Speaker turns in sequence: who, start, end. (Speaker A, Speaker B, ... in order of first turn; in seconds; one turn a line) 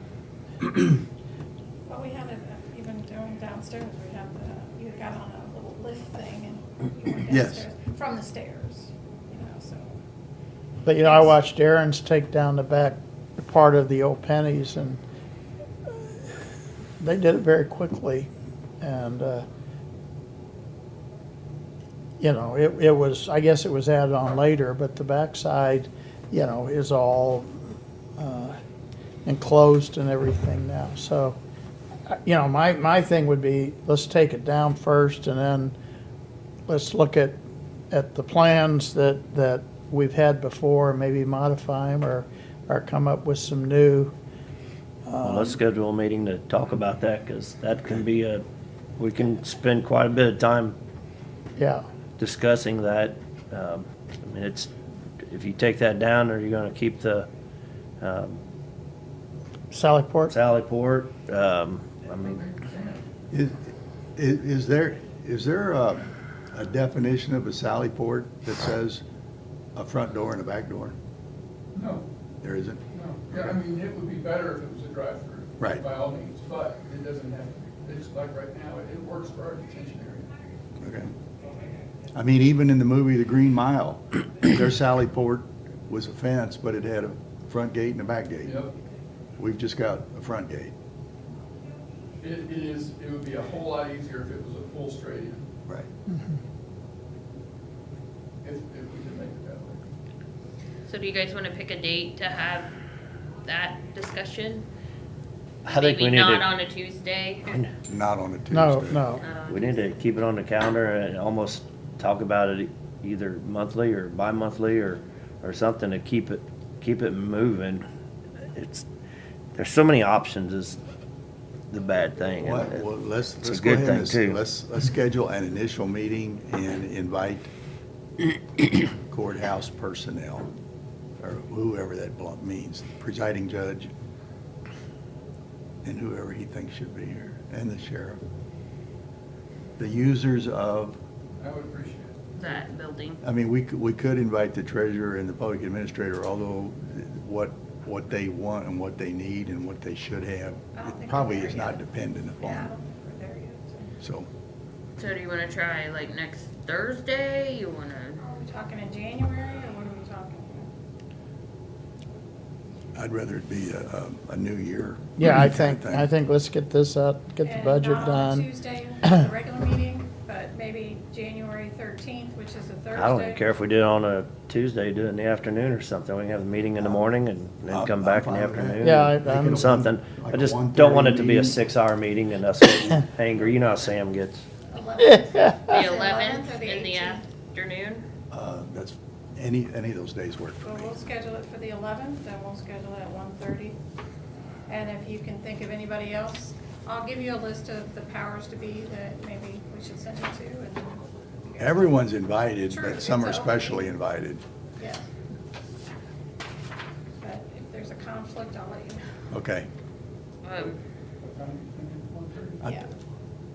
Speaker A: 1.9-10.0
Speaker B: 7.3-7.6
Speaker C: 10.8-15.0
Speaker A: 11.0-11.3
Speaker C: 17.0-18.3
Speaker C: 18.8-19.4
Speaker C: 22.2-27.6
Speaker C: 28.2-28.6
Speaker C: 29.2-31.4
Speaker C: 32.1-35.7
Speaker C: 36.7-37.4
Speaker C: 37.9-44.1
Speaker C: 45.0-45.6
Speaker D: 45.2-48.4
Speaker D: 49.0-50.8
Speaker C: 51.6-51.8
Speaker D: 52.2-54.7
Speaker D: 55.2-57.3
Speaker D: 58.0-58.4
Speaker C: 59.7-60.3
Speaker D: 60.3-62.4
Speaker E: 62.2-63.0
Speaker B: 63.3-63.6
Speaker B: 64.2-69.0
Speaker B: 69.8-70.9
Speaker E: 71.7-72.0
Speaker B: 72.4-72.8
Speaker E: 72.9-80.3
Speaker B: 80.8-81.1
Speaker B: 82.1-88.5
Speaker E: 88.4-88.7
Speaker B: 89.4-90.7
Speaker E: 92.2-95.5
Speaker E: 98.4-99.8
Speaker F: 100.8-102.7
Speaker F: 103.4-104.7
Speaker D: 105.6-106.4
Speaker F: 105.7-107.5
Speaker B: 107.9-109.0
Speaker C: 108.5-109.2
Speaker F: 109.2-109.8
Speaker D: 109.5-117.8
Speaker D: 118.5-118.8
Speaker D: 119.5-120.8
Speaker D: 121.7-122.8
Speaker B: 122.4-127.5
Speaker D: 123.4-124.4
Speaker B: 129.0-130.5
Speaker B: 131.2-133.9
Speaker B: 135.8-138.2
Speaker B: 139.8-141.0
Speaker E: 141.4-142.4
Speaker F: 142.4-143.2
Speaker B: 143.2-152.7
Speaker A: 150.7-151.8
Speaker A: 152.4-153.9
Speaker B: 154.0-154.3
Speaker F: 155.0-158.2
Speaker A: 158.2-160.7
Speaker B: 162.9-166.1
Speaker C: 165.2-168.5
Speaker A: 167.4-173.5
Speaker D: 172.9-184.4
Speaker B: 177.7-181.6
Speaker C: 178.8-179.7
Speaker A: 184.7-187.2
Speaker C: 185.0-185.7
Speaker F: 185.7-188.0
Speaker B: 188.3-190.9
Speaker A: 190.6-193.8
Speaker A: 194.7-202.1
Speaker B: 201.6-204.4
Speaker A: 202.7-203.9
Speaker A: 204.8-205.1
Speaker A: 207.2-209.0
Speaker B: 209.3-209.7
Speaker F: 210.4-210.7
Speaker E: 211.3-212.6